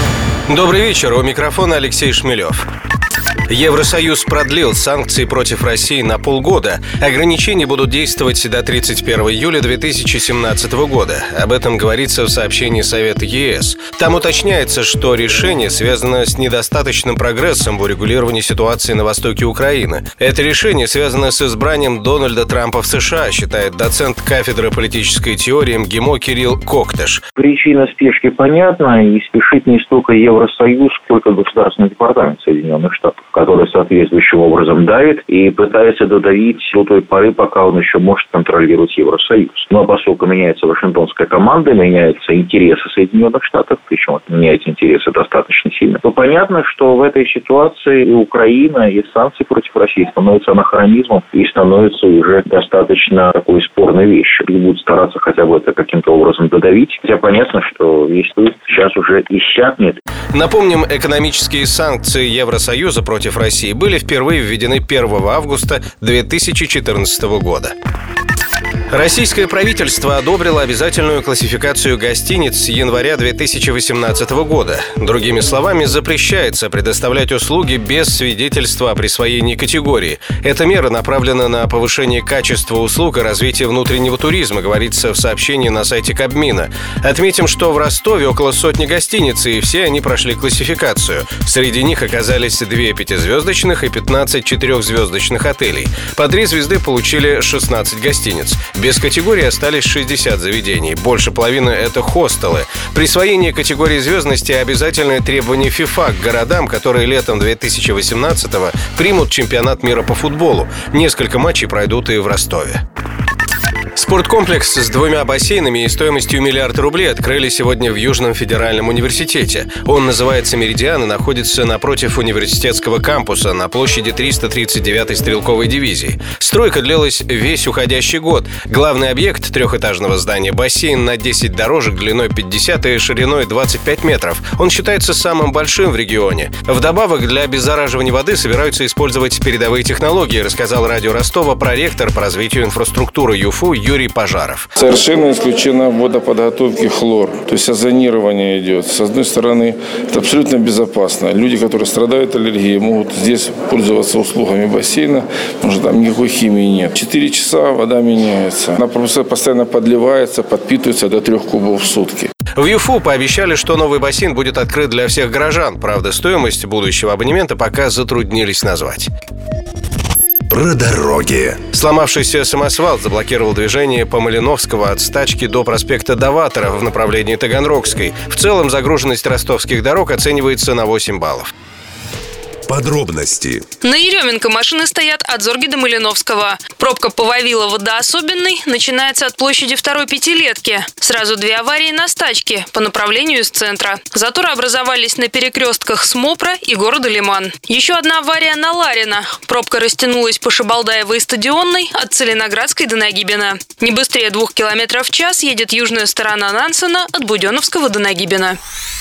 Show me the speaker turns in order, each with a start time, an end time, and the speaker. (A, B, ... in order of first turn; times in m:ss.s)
0:00.5-0:02.7 A
0:03.5-0:27.2 A
0:27.4-1:00.0 B
1:00.3-1:07.8 A
1:08.9-1:52.8 A
1:54.0-2:24.7 A
2:24.8-2:42.3 C
2:42.6-2:49.1 A
2:50.5-2:51.6 D
2:51.7-3:01.5 A
3:02.7-3:03.6 D
3:03.8-3:28.6 E